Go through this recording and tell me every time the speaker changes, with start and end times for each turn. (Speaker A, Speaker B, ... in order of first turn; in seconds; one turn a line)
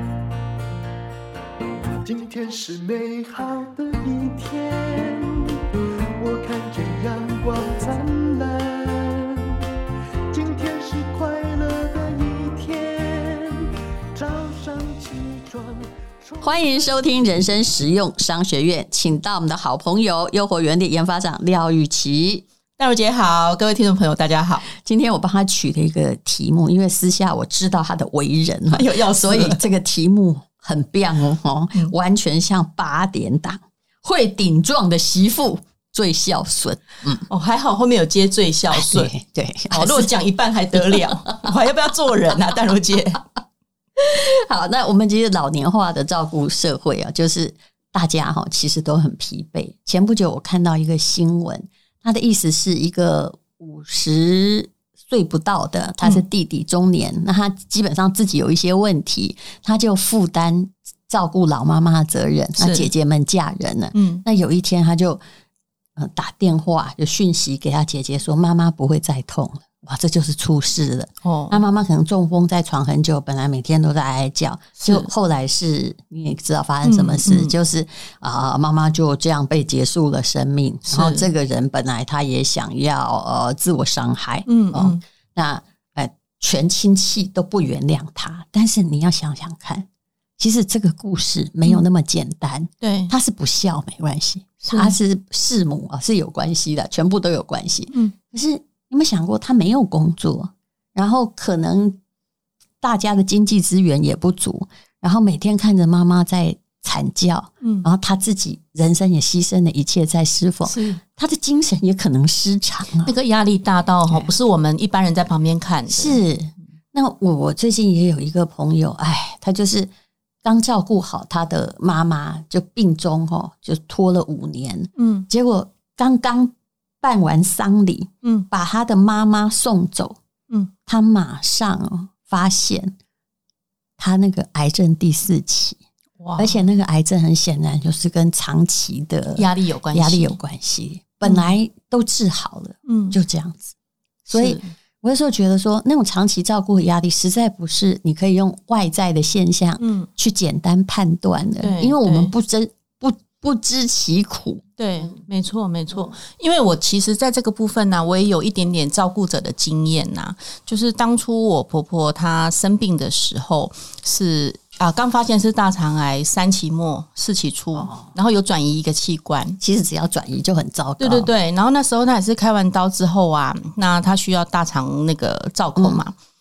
Speaker A: 2.0-9.6
Speaker A: 10.3-17.0
Speaker B: 16.4-22.4
Speaker C: 22.8-24.6
Speaker B: 24.7-37.3
Speaker C: 28.7-29.6
Speaker C: 37.3-39.1
Speaker B: 38.7-40.1
Speaker C: 39.7-43.2
Speaker B: 40.9-41.5
Speaker B: 44.0-65.2
Speaker C: 62.6-62.9
Speaker C: 63.9-64.2
Speaker B: 66.0-89.9
Speaker C: 71.2-71.6
Speaker C: 74.8-75.1
Speaker C: 76.8-77.5
Speaker C: 80.9-81.3
Speaker C: 84.5-85.0
Speaker B: 90.4-102.0
Speaker C: 92.8-93.1
Speaker C: 94.7-95.0
Speaker B: 102.8-113.1
Speaker C: 107.6-107.9
Speaker C: 110.7-111.0
Speaker C: 113.0-116.2
Speaker B: 115.9-119.9
Speaker B: 120.4-130.2
Speaker C: 125.0-125.3
Speaker B: 130.9-132.9
Speaker B: 134.0-135.8
Speaker C: 136.2-136.6
Speaker B: 136.4-143.7
Speaker C: 139.4-140.4
Speaker C: 141.2-141.6
Speaker C: 142.9-143.2
Speaker B: 144.3-155.2
Speaker C: 144.3-144.7
Speaker C: 149.8-150.1
Speaker C: 151.6-152.3
Speaker C: 154.8-169.6
Speaker B: 167.8-168.1
Speaker B: 169.6-171.3
Speaker C: 171.0-176.1
Speaker B: 175.8-176.0